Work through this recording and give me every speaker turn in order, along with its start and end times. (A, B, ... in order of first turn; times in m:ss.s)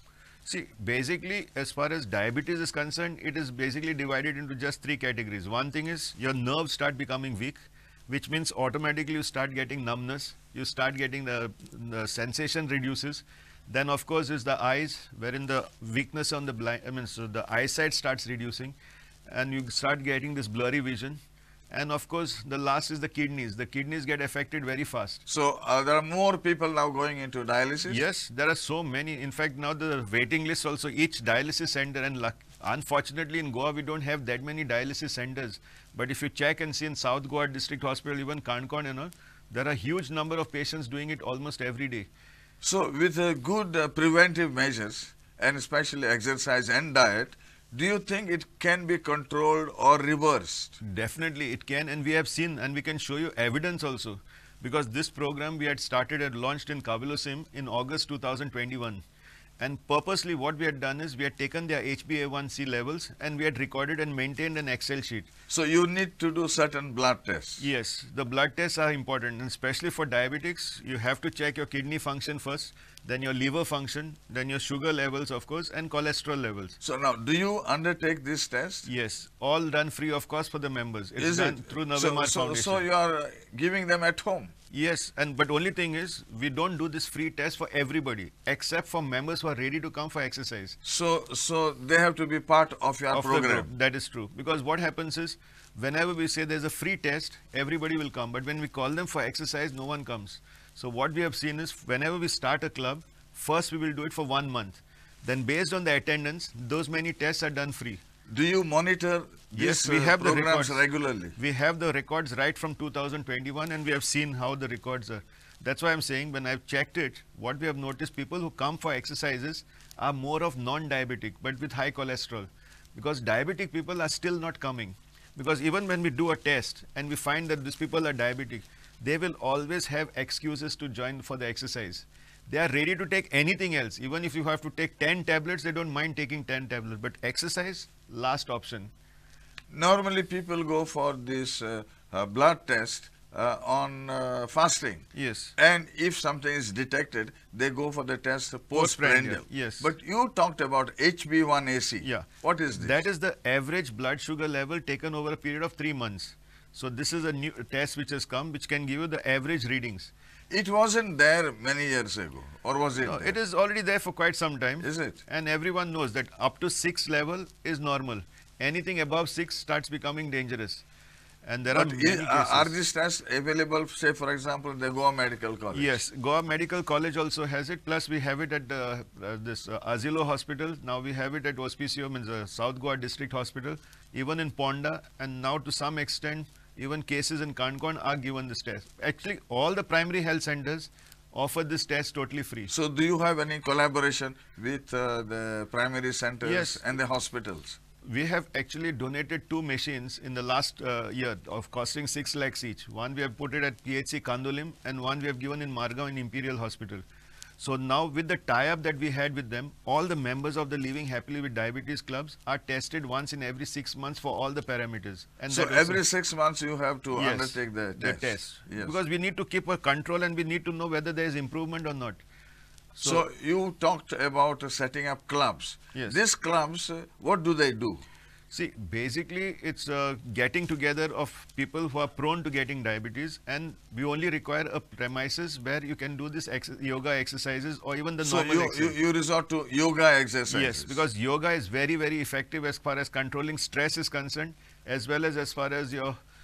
0:00.4-0:18.7 A
0:19.3-0:25.2 A
0:25.2-0:28.0 B
0:27.9-0:42.1 A
0:42.6-0:50.8 B
0:50.8-0:59.0 A
0:59.6-1:05.3 A
1:05.5-1:07.6 B
1:07.6-1:16.8 A
1:16.8-1:18.9 B
1:18.8-1:22.8 A
1:21.2-1:24.5 B
1:24.7-1:30.8 A
1:30.8-1:33.7 B
1:33.1-1:48.0 A
1:48.3-1:51.4 B
1:49.6-1:50.8 A
1:51.4-2:18.9 A
2:19.7-2:33.0 B
2:25.1-2:25.5 A
2:28.7-2:29.9 A
2:32.0-2:32.3 A
2:32.8-2:40.1 A
2:40.5-2:43.3 B
2:43.0-2:50.8 A
2:44.8-2:45.2 B
2:51.4-2:52.7 A
2:51.7-2:56.0 B
2:55.7-3:12.7 A
3:12.7-3:17.8 B
3:16.4-3:16.8 A
3:18.0-3:27.0 A
3:27.6-3:36.0 A
3:35.5-3:38.9 B
3:37.1-3:42.2 A
3:43.0-3:43.2 A
3:43.0-3:48.0 B
3:45.9-3:46.2 A
3:48.5-3:59.0 A
3:58.2-4:01.0 B
4:00.5-4:06.2 A